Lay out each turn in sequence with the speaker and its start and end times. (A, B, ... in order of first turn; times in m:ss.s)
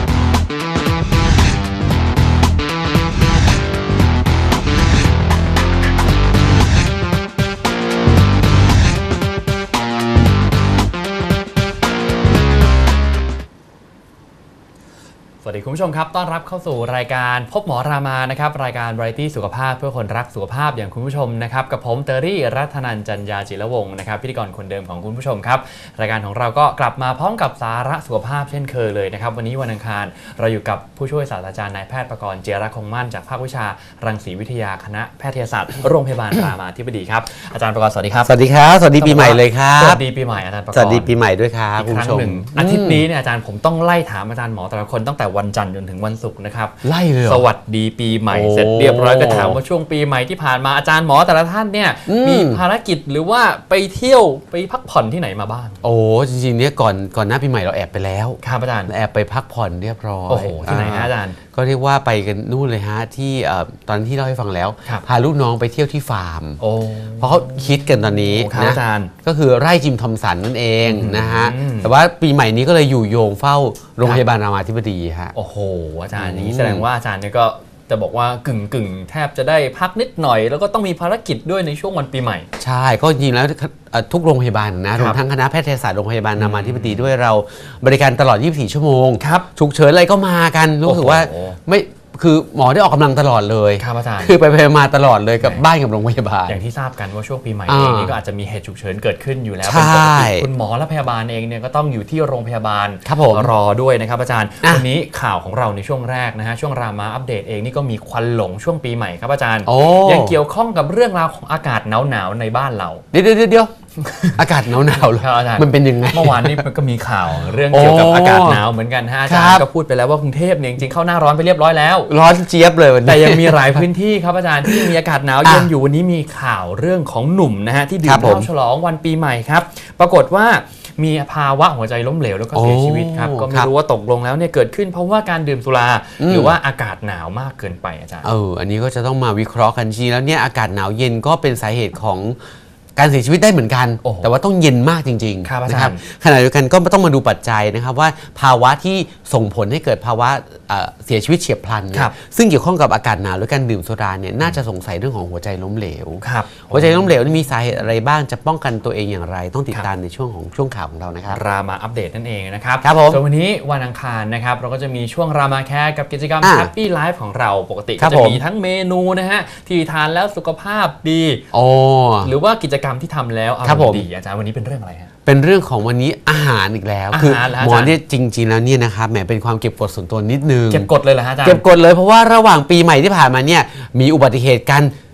0:15.4-0:38.3 A
0:38.2-0:40.0 B
0:38.9-0:41.2 A
0:40.7-0:43.0 B
0:41.8-0:55.8 A
0:46.8-0:47.4 B
0:48.3-0:49.6 B
0:52.1-0:52.6 B
0:55.8-1:06.6 B
0:58.4-0:58.9 A
1:00.3-1:01.4 A
1:06.6-1:09.1 A
1:07.2-1:15.3 B
1:10.8-1:11.9 A
1:15.3-1:22.5 A
1:16.1-1:16.8 B
1:22.6-1:36.6 B
1:24.9-1:25.2 A
1:26.4-1:27.1 A
1:29.2-1:29.5 A
1:30.8-1:31.6 A
1:33.8-1:34.4 A
1:36.5-1:53.0 A
1:37.7-1:38.2 B
1:39.6-1:40.5 B
1:43.0-1:43.5 B
1:49.6-1:50.4 B
1:53.1-1:53.7 B
1:54.0-1:54.4 A
1:54.4-1:56.7 B
1:55.0-2:02.1 A
1:57.4-1:58.6 B
1:59.3-1:59.7 B
2:02.1-2:03.8 B
2:03.0-2:18.3 A
2:04.6-2:04.9 B
2:05.4-2:05.7 B
2:08.0-2:08.5 B
2:12.5-2:13.7 B
2:16.2-2:16.6 B
2:18.2-2:22.4 B
2:23.0-2:41.4 B
2:24.0-2:24.3 A
2:25.4-2:26.0 A
2:36.2-2:37.1 A
2:41.3-2:51.4 A
2:42.8-2:43.2 B
2:46.4-2:46.7 B
2:48.0-2:48.4 B
2:51.5-2:52.3 B
2:52.2-2:55.1 A
2:53.6-2:54.0 B
2:55.2-3:00.9 B
2:57.1-2:58.0 A
3:00.7-3:01.6 A
3:01.4-3:04.9 B